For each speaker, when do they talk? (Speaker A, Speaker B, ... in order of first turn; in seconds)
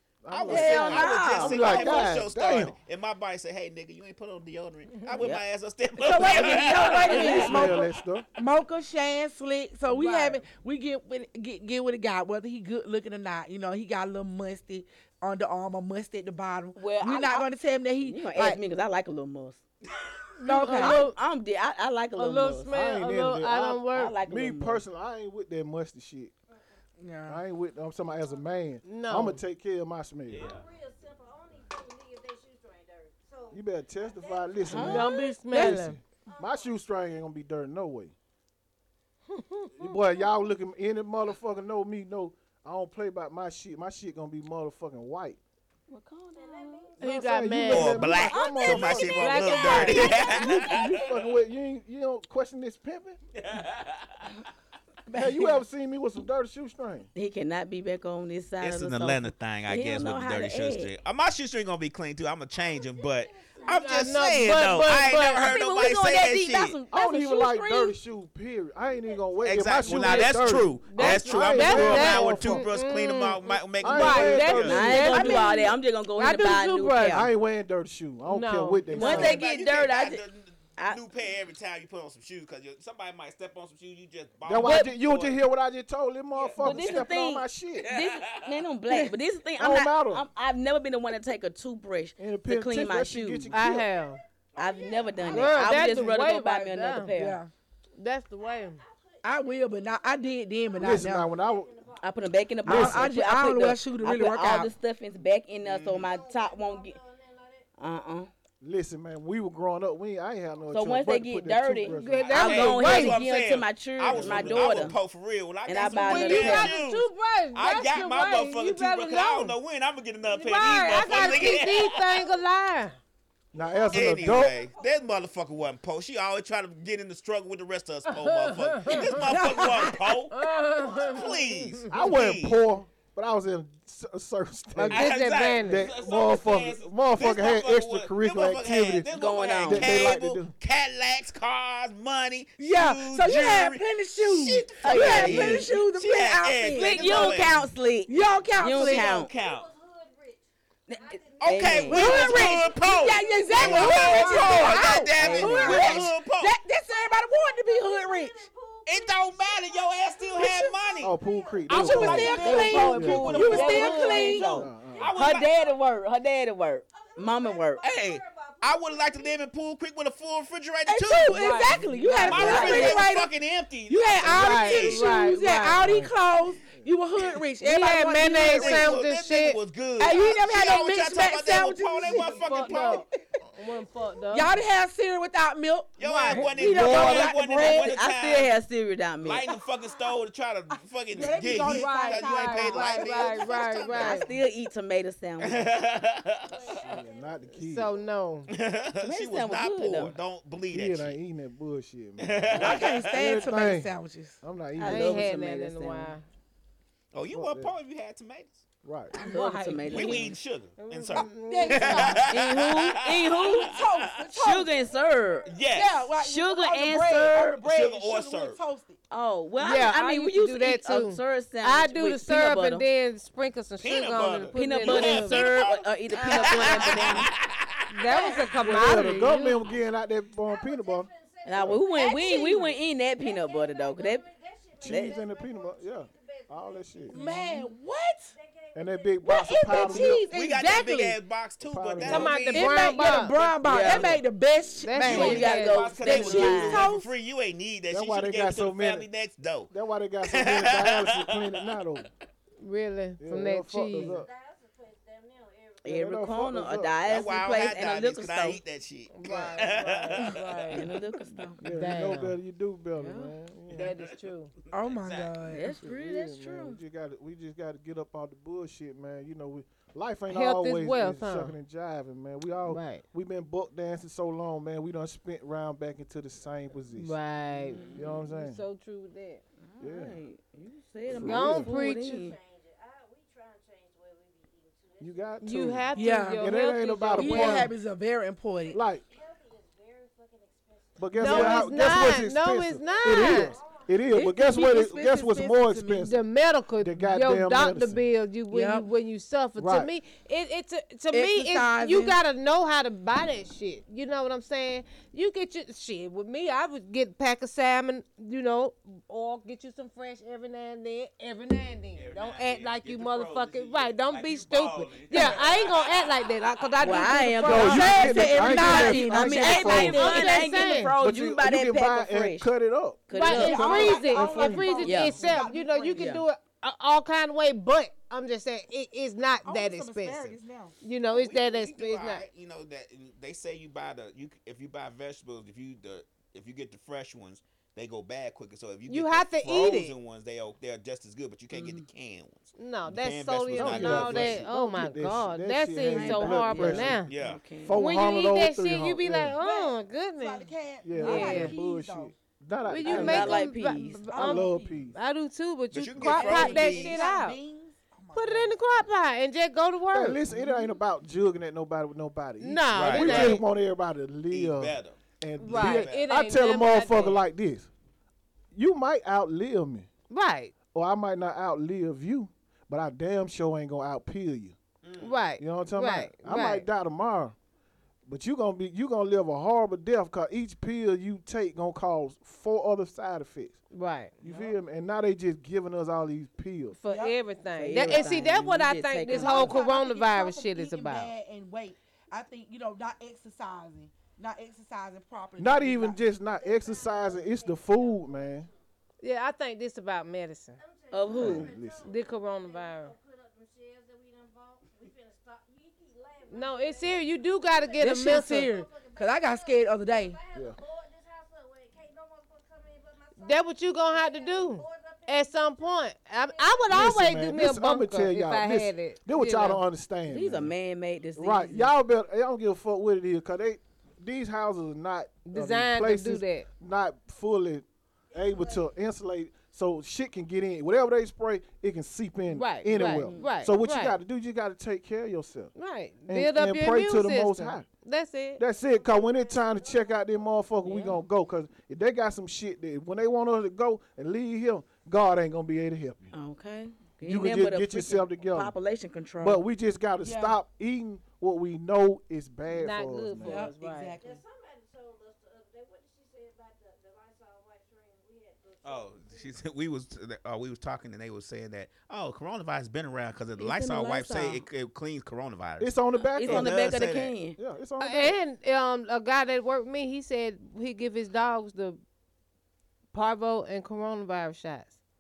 Speaker A: 0.2-2.8, 7.1-8.3, 22.7-26.3, 27.3-30.5, 33.5-38.1, 39.8-45.4, 47.0-49.3, 49.9-53.2, 55.1-57.1, 66.9-72.6, 73.8-75.5, 77.1-79.4, 84.5-87.9, 89.6-90.3, 92.2-93.9, 100.8-101.7, 102.7-103.1, 108.6-112.6, 114.1-114.9, 123.5-124.6, 131.9-135.1, 135.6-139.1, 139.6-140.5, 161.0-163.7, 164.5-165.1, 175.8-176.1, 196.7-197.9, 200.7-205.3, 207.3-207.7, 208.8-209.1, 228.6-231.8, 234.8-237.2, 238.8-240.3, 241.6-242.4, 247.9-249.1, 249.7-252.1, 253.2-254.3, 255.9-257.0, 261.6-263.9, 265.6-277.2, 277.9-278.6, 279.8-280.2, 281.1-281.7, 285.0-287.7, 288.7-289.0, 291.0-296.2, 296.8-298.0, 299.6-299.9, 317.4-320.3, 321.0-324.9, 343.6-347.0, 347.6-349.4, 350.8-353.5, 354.1-355.0, 359.9-367.7, 368.5-369.9, 370.7-374.6, 375.4-377.4, 378.1-383.6, 384.2-386.8, 395.4-398.5, 401.1-401.9, 416.7-420.5, 421.2-435.5, 436.1-437.7, 438.4-446.1, 447.0-448.5, 449.2-453.5, 465.6-466.8, 467.4-468.2
Speaker B: 0.3-7.7, 30.3-30.7, 47.6-51.2, 53.3-54.4, 58.6-66.8, 69.4-75.1, 79.0-85.4, 86.4-87.0, 87.8-88.7, 105.6-106.1, 112.3-122.2, 123.9-130.4, 130.9-132.6, 134.9-147.7, 148.8-149.7, 151.4-156.6, 158.9-161.2, 163.0-165.5, 167.8-171.5, 172.2-175.3, 178.4-183.1, 186.0-188.6, 189.2-194.2, 195.4-196.8, 198.5-201.2, 202.2-203.3, 207.1-208.6, 209.9-214.3, 215.5-216.1, 217.6-218.6, 223.8-228.3, 239.8-244.2, 245.0-251.8, 257.0-260.9, 263.7-264.2, 264.7-265.4, 311.9-317.2, 331.1-344.5, 347.0-347.5, 355.7-357.0, 362.7-363.4, 364.3-366.1, 374.8-375.1, 458.6-467.2
Speaker C: 0.5-2.1, 6.2-7.8, 16.8-17.5, 18.1-19.6, 20.7-22.7, 23.9-24.8, 34.7-35.1, 45.9-46.9, 57.1-60.9, 65.4-67.9, 74.6-77.3, 79.0-80.2, 80.8-81.0, 86.6-93.5, 94.6-97.4, 102.0-107.0, 107.8-108.3, 110.7-115.0, 115.7-116.7, 139.1-140.2, 144.8-145.7, 146.8-149.3, 150.9-152.5, 153.6-156.1, 161.8-167.8, 172.3-173.1, 186.9-189.5, 193.9-195.7, 199.0-200.2, 204.8-206.1, 209.2-210.3, 212.3-213.7, 214.3-215.5, 216.1-217.6, 219.1-222.8, 224.6-227.3, 231.4-234.2, 234.8-235.2, 243.6-244.2, 245.0-246.9, 255.8-258.6, 260.8-261.6, 263.0-263.4, 265.5-266.8, 277.6-278.2, 279.7-282.4, 316.8-322.5, 323.1-324.1, 324.8-325.2, 326.0-326.2, 341.5-341.9, 345.8-347.8, 352.8-354.4, 387.6-389.6, 400.9-401.6, 420.1-421.7, 432.8-433.3, 440.7-440.9, 446.1-449.4, 463.4-464.5, 466.2-467.4
Speaker D: 6.0-18.6, 20.4-21.1, 27.0-27.4, 35.3-35.8, 55.1-55.6, 88.9-89.1, 97.1-97.5, 99.2-101.3, 102.6-104.7, 129.1-130.2, 142.6-147.4, 148.1-149.2, 151.9-158.5, 161.7-164.6, 170.9-173.3, 173.9-179.0, 180.0-183.1, 184.3-188.0, 191.1-193.3, 202.6-204.4, 211.1-212.4, 213.4-214.8, 215.7-219.0, 226.2-226.9, 228.1-228.6, 237.1-238.3, 239.2-241.2, 242.4-247.1, 264.7-265.7, 285.9-286.5, 287.2-288.8, 294.1-296.1, 298.5-298.9, 301.1-302.2, 317.5-320.8, 323.3-326.2, 329.4-330.8, 349.4-352.1, 354.1-354.9, 356.0-358.6, 384.2-384.6, 386.9-387.2, 389.1-396.0, 407.8-410.2, 450.0-450.4, 453.2-454.2
Speaker E: 9.9-10.4, 20.4-21.2, 22.2-24.2, 28.9-29.4, 34.8-36.0, 39.3-39.8, 47.0-48.1, 48.9-50.4, 63.7-65.5, 70.0-77.3, 78.3-79.3, 93.5-94.2, 95.2-97.1, 98.0-98.8, 111.9-113.2, 115.9-119.6, 120.3-123.0, 128.1-132.0, 134.8-135.9, 161.7-162.9, 163.6-163.9, 171.3-173.0, 174.3-176.1, 177.6-179.6, 182.1-184.6, 186.0-186.5, 191.6-194.3, 197.6-198.5, 204.8-206.2, 209.1-212.3, 219.6-225.5, 227.9-229.7, 237.2-237.5, 242.0-243.4, 244.8-245.9, 252.6-254.2, 259.1-260.9, 261.7-262.4, 263.7-264.5, 270.3-271.6, 272.7-273.0, 276.9-279.4, 281.2-282.3, 285.4-287.7, 291.2-293.6, 296.0-320.9, 323.1-332.3, 338.9-340.0, 342.6-347.1, 347.7-351.6, 352.7-357.4, 358.1-360.2, 362.4-363.4, 365.4-367.2, 370.1-370.5, 375.0-376.7, 383.7-384.2, 386.8-391.1, 399.0-400.6, 401.8-402.9, 406.3-408.5, 413.2-419.6, 425.3-426.5, 432.3-434.0, 435.6-438.4, 452.5-453.9, 467.8-471.8, 472.9-474.7
Speaker F: 28.1-28.5, 30.3-35.4, 36.3-36.8, 46.4-47.3, 47.8-50.6, 62.5-65.1, 68.8-70.6, 93.6-96.2, 98.4-102.5, 105.9-107.7, 120.9-121.6, 123.6-125.2, 130.7-131.5, 148.1-156.1, 156.6-163.0, 163.8-165.8, 166.9-169.5, 182.1-182.5, 183.8-184.7, 189.5-190.2, 193.2-193.5, 196.4-198.1, 214.5-216.0, 228.8-240.2, 254.0-256.1, 282.1-286.0, 288.6-294.2, 396.1-398.6, 400.6-416.8, 428.1-428.8, 438.4-440.6, 454.0-459.4